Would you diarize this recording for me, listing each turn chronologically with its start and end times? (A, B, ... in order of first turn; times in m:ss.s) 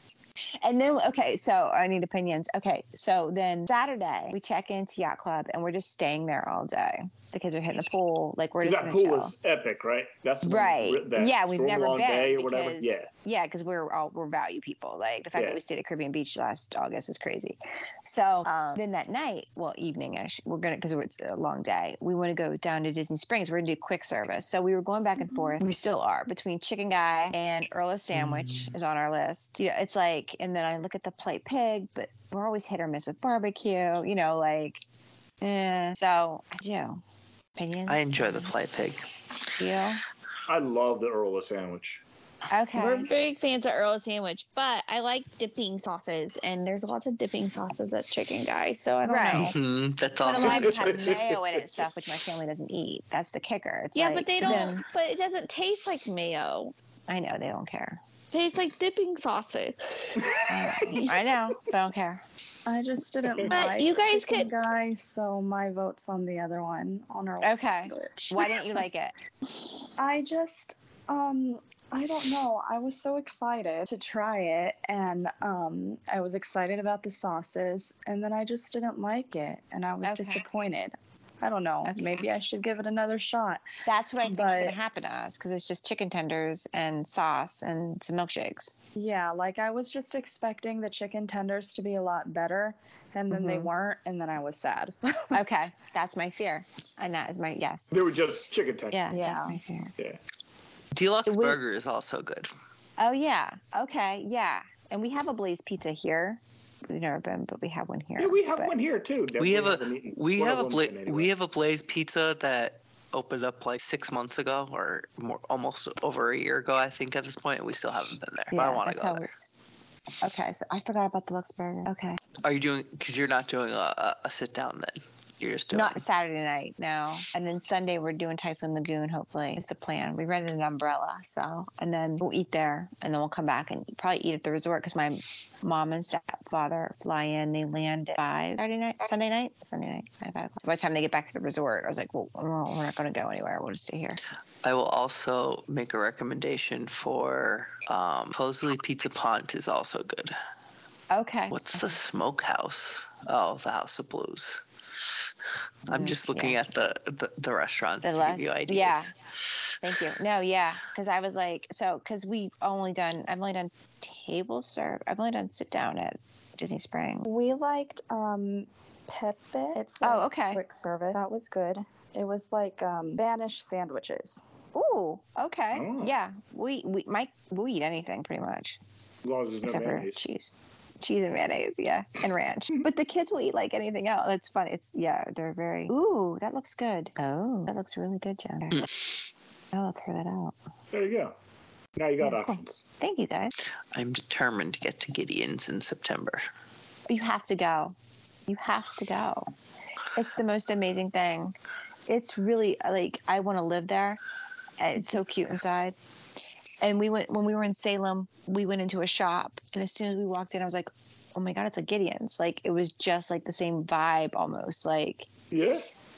0:00.6-0:09.3 A
0:08.6-0:13.1 B
0:10.4-0:34.8 A
0:15.4-0:15.6 B
0:28.1-0:28.7 C
0:35.4-0:37.0 A
0:37.6-0:38.5 A
0:37.9-0:39.0 C
0:39.6-0:40.0 A
0:40.5-0:42.0 B
0:42.5-0:43.1 A
0:42.8-0:49.6 D
0:49.1-0:49.6 A
0:49.3-0:51.2 C
0:50.2-0:54.8 A
0:50.4-0:52.0 B
0:53.9-0:56.7 D
0:57.1-0:58.0 A
0:58.3-1:00.2 D
1:00.2-1:01.2 B
1:00.5-1:02.2 A
1:02.7-1:08.8 E
1:03.3-1:03.5 B
1:03.5-1:04.5 D
1:07.4-1:09.1 A
1:10.0-1:23.6 E
1:20.0-1:20.4 A
1:21.9-1:22.2 A
1:23.9-1:28.7 A
1:24.2-1:25.2 E
1:29.0-1:35.3 E
1:33.3-1:33.7 A
1:35.3-1:37.9 A
1:37.9-1:39.1 B
1:38.9-1:39.9 A
1:39.1-1:39.6 E
1:40.9-1:42.5 C
1:41.3-1:41.6 A
1:43.0-1:48.7 A
1:48.2-1:51.3 B
1:49.4-1:59.3 C
1:58.5-1:59.5 A
2:00.2-2:02.2 A
2:02.4-2:06.0 C
2:05.7-2:24.2 A
2:24.6-2:30.4 C
2:31.1-2:31.9 A
2:31.5-2:35.2 C
2:35.9-2:39.1 C
2:35.9-2:36.6 A
2:38.0-2:39.1 A
2:39.8-2:47.3 A
2:47.2-2:54.4 E
2:50.0-2:50.6 A
2:54.7-2:58.8 A
2:55.7-2:56.2 B
2:59.2-3:00.2 B
2:59.6-3:00.5 A
3:01.0-3:09.0 A
3:09.7-3:10.6 A
3:10.9-3:11.3 B
3:12.0-3:12.8 B
3:12.2-3:13.5 A
3:13.9-3:16.4 C
3:17.1-3:18.0 A
3:18.5-3:19.5 A
3:20.2-3:21.6 A
3:22.1-3:24.2 A
3:24.8-3:26.0 A
3:26.8-3:35.3 A
3:35.5-3:35.8 B